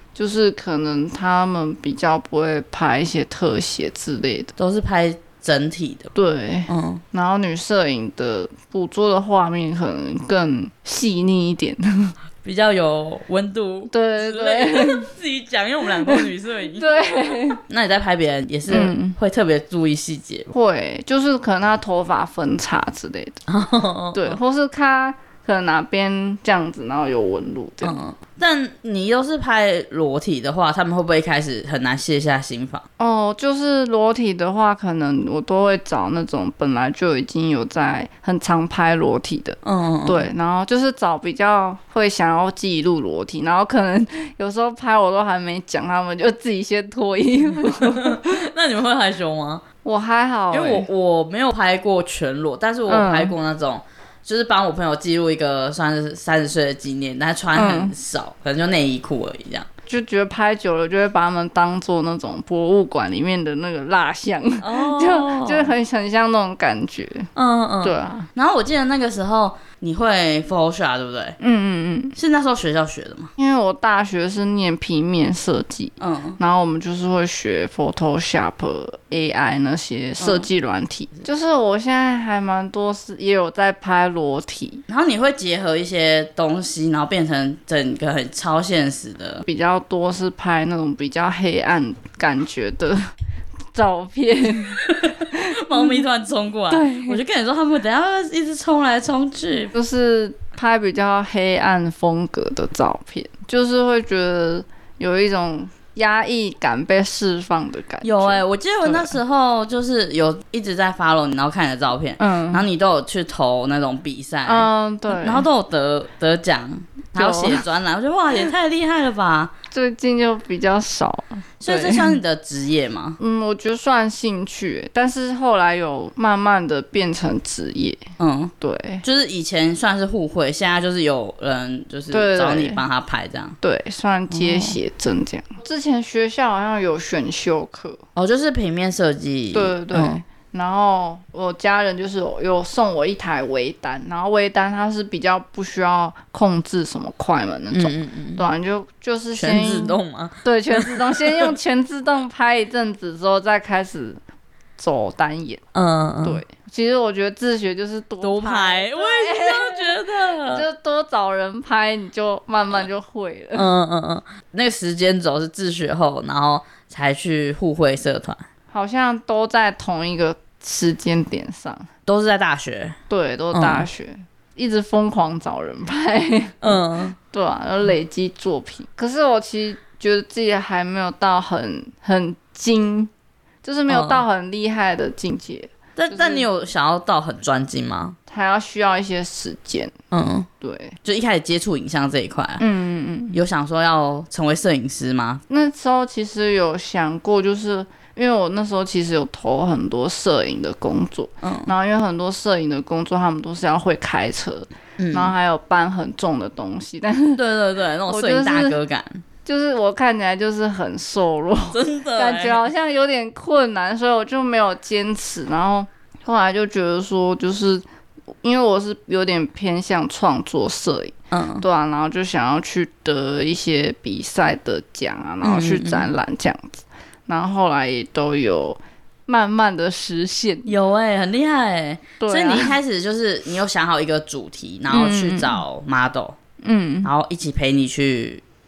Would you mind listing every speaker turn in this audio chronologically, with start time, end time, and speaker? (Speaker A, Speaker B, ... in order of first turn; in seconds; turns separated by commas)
Speaker A: 0.1-4.5, Speaker B: 4.6-6.1, Speaker A: 6.2-12.1, Speaker B: 6.7-7.0, Speaker B: 12.4-20.5, Speaker A: 13.9-15.1, Speaker A: 16.8-17.6, Speaker A: 18.7-19.2, Speaker A: 20.5-23.4, Speaker B: 23.5-24.4, Speaker A: 24.1-28.0, Speaker B: 27.8-32.9, Speaker A: 33.0-48.4, Speaker B: 39.6-40.3, Speaker B: 47.6-49.6, Speaker A: 49.8-50.9, Speaker B: 50.5-59.7, Speaker A: 52.9-53.4, Speaker A: 57.5-58.0, Speaker A: 59.9-67.3, Speaker B: 64.6-65.7, Speaker B: 67.4-71.4, Speaker A: 67.8-68.3, Speaker A: 71.4-72.2, Speaker B: 72.2-73.3, Speaker A: 73.4-84.8, Speaker B: 76.0-76.4, Speaker B: 80.2-80.5, Speaker B: 84.9-89.4, Speaker A: 89.4-93.0, Speaker A: 93.7-94.8, Speaker B: 94.7-99.7, Speaker A: 95.3-96.0, Speaker A: 96.7-97.2, Speaker A: 99.7-109.2, Speaker B: 108.0-119.5, Speaker A: 112.2-112.7, Speaker A: 114.5-115.5, Speaker A: 117.2-117.6, Speaker A: 119.7-122.2, Speaker B: 121.6-123.2, Speaker A: 123.2-128.0, Speaker B: 128.2-133.6, Speaker A: 128.6-129.0, Speaker A: 132.1-132.8, Speaker A: 133.6-138.0, Speaker B: 134.3-134.8, Speaker B: 138.2-140.2, Speaker A: 139.5-154.2, Speaker B: 147.7-148.5, Speaker B: 149.4-151.5, Speaker A: 154.8-155.6, Speaker B: 155.7-156.4, Speaker A: 156.2-163.7, Speaker B: 158.2-160.7, Speaker B: 163.6-168.4, Speaker A: 168.7-171.9, Speaker B: 172.1-173.0, Speaker A: 173.1-183.1, Speaker B: 173.5-173.9, Speaker B: 176.6-177.2, Speaker A: 183.6-186.5, Speaker B: 183.9-184.2, Speaker B: 186.0-188.2, Speaker A: 188.3-189.9, Speaker B: 190.1-190.5, Speaker A: 190.6-191.0, Speaker B: 191.0-192.6, Speaker A: 192.6-193.4, Speaker B: 193.3-195.4, Speaker A: 195.5-207.4, Speaker B: 201.4-201.7, Speaker B: 205.0-205.3, Speaker B: 207.3-209.2, Speaker A: 208.1-208.8, Speaker A: 209.4-217.8, Speaker B: 211.7-212.6, Speaker A: 218.4-230.7, Speaker B: 221.3-221.7, Speaker B: 225.4-226.1, Speaker B: 230.7-236.4, Speaker A: 232.2-232.8, Speaker A: 234.9-235.6, Speaker A: 236.6-237.1, Speaker B: 237.0-238.4